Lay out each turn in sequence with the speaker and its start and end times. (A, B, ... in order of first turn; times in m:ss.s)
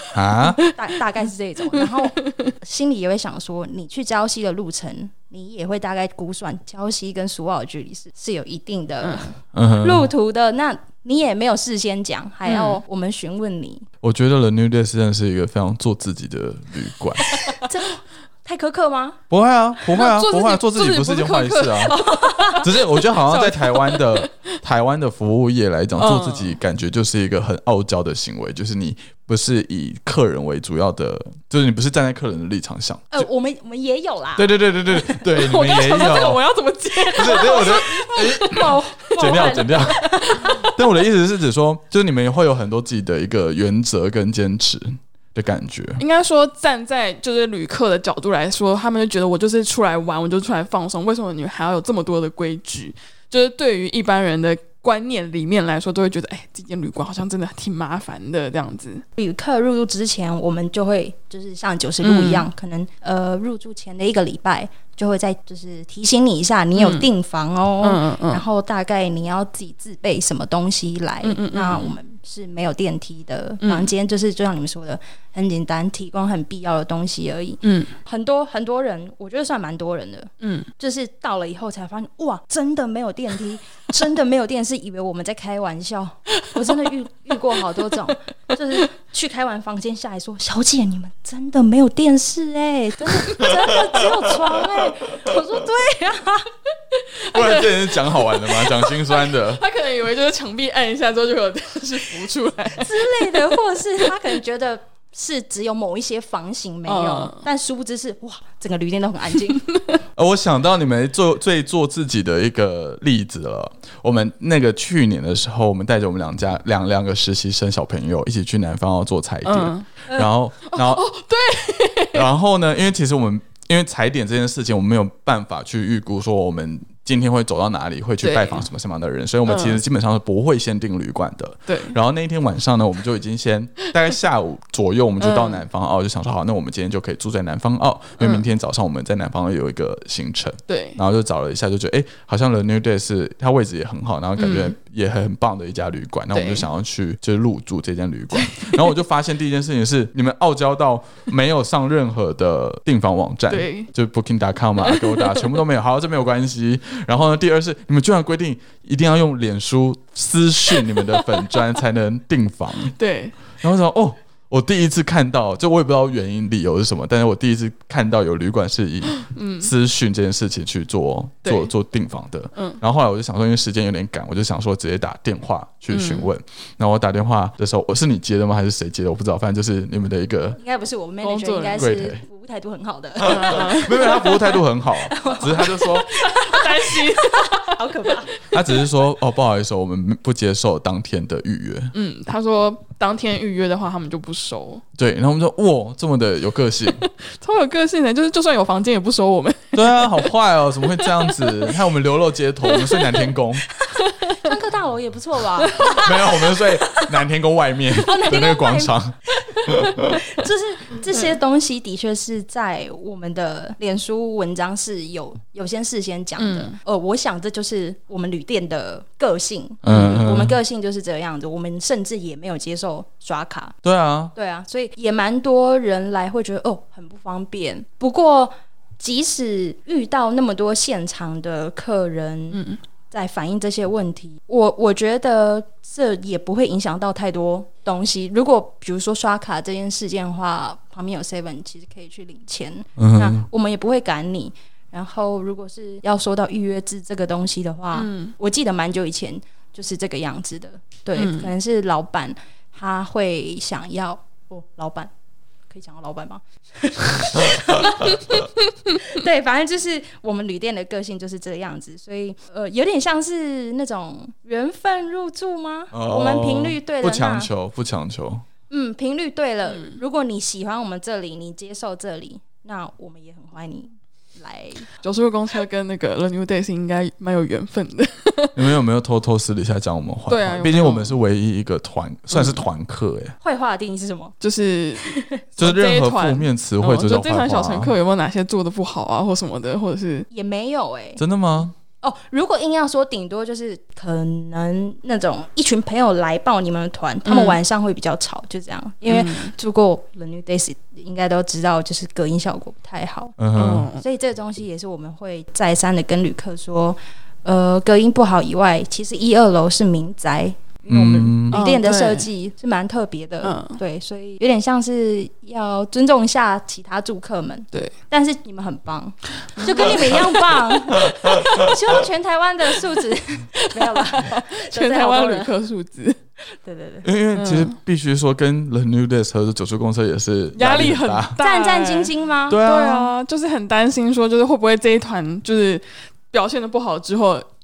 0:00.1-0:00.6 A
0:00.6-0:13.9 B
0:09.0-0:09.3 C
0:09.5-0:10.1 A
0:12.4-0:12.8 C
0:14.0-0:17.4 A
0:17.4-0:19.2 B
0:19.3-0:22.0 A
0:19.9-0:24.5 C
0:22.0-0:22.7 B
0:22.6-0:33.3 A
0:26.0-0:26.6 C
0:33.1-0:35.2 B
0:34.4-0:36.4 A
0:35.2-0:39.1 C
0:37.0-0:40.6 B
0:37.2-0:46.0 A
0:40.1-0:40.7 C
0:46.0-0:59.0 C
0:59.2-1:36.5 B
1:02.0-1:02.5 C
1:06.8-1:07.1 C
1:07.8-1:08.4 C
1:11.2-1:11.9 C
1:13.6-1:13.9 C
1:17.6-1:17.9 C
1:20.4-1:20.7 C
1:37.1-1:43.5 C
1:37.3-1:39.6 A
1:42.8-1:49.6 B
1:46.9-1:47.4 C
1:50.2-2:01.0 A
1:59.4-1:59.9 C
2:00.7-2:02.3 C
2:02.1-2:43.0 A
2:08.2-2:08.6 C
2:09.5-2:09.8 C
2:11.7-2:12.0 C
2:15.2-2:15.6 C
2:18.2-2:18.5 C
2:20.7-2:21.0 C
2:24.4-2:24.8 C
2:26.3-2:26.7 C
2:28.3-2:28.9 C
2:33.5-2:33.9 C
2:34.8-2:35.5 C
2:43.0-2:43.4 C
2:43.6-3:00.6 A
2:49.2-2:49.7 C
2:51.4-2:51.7 C
2:55.9-2:56.3 C
3:00.6-3:08.4 B
3:01.2-3:01.9 C
3:01.8-3:02.2 A
3:03.2-3:06.1 A
3:03.2-3:04.4 C
3:06.3-3:07.8 C
3:08.5-3:11.9 A
3:11.9-3:14.8 C
3:15.0-3:17.1 A
3:17.2-3:20.3 C
3:19.7-3:23.7 A
3:21.0-3:21.7 C
3:22.7-3:23.2 C
3:24.0-3:24.5 C
3:24.2-3:27.0 B
3:25.8-3:26.1 C
3:25.9-3:30.2 A
3:28.0-3:43.8 B
3:36.4-3:36.8 C
3:39.8-3:40.6 A
3:39.9-3:40.2 C
3:43.8-3:44.3 A
3:44.4-4:15.1 B
3:52.5-3:52.8 C
4:03.0-4:03.4 A
4:07.9-4:08.3 C
4:11.2-4:11.5 C
4:15.7-4:27.5 B
4:25.9-4:28.4 A
4:28.7-4:34.9 B
4:29.7-4:30.0 C
4:35.0-4:38.7 C
4:38.6-4:43.4 A
4:40.3-4:41.2 C
4:42.3-4:42.6 C
4:43.4-4:44.4 B
4:44.4-4:50.3 C
4:45.0-4:45.4 B
4:45.6-4:48.0 A
4:50.3-4:51.2 B
4:51.2-4:51.7 A
4:52.0-5:03.4 B
4:57.2-4:57.6 C
4:59.1-4:59.5 C
5:03.4-5:03.9 A
5:03.6-5:04.0 C
5:03.9-5:25.5 B
5:10.9-5:11.6 A
5:11.5-5:12.3 C
5:13.4-5:13.8 C
5:19.6-5:20.6 C
5:23.6-5:26.2 C
5:26.5-5:27.1 B
5:27.0-5:31.4 A
5:27.4-5:27.8 C
5:30.6-5:37.5 C
5:31.4-5:32.6 B
5:32.5-5:33.1 A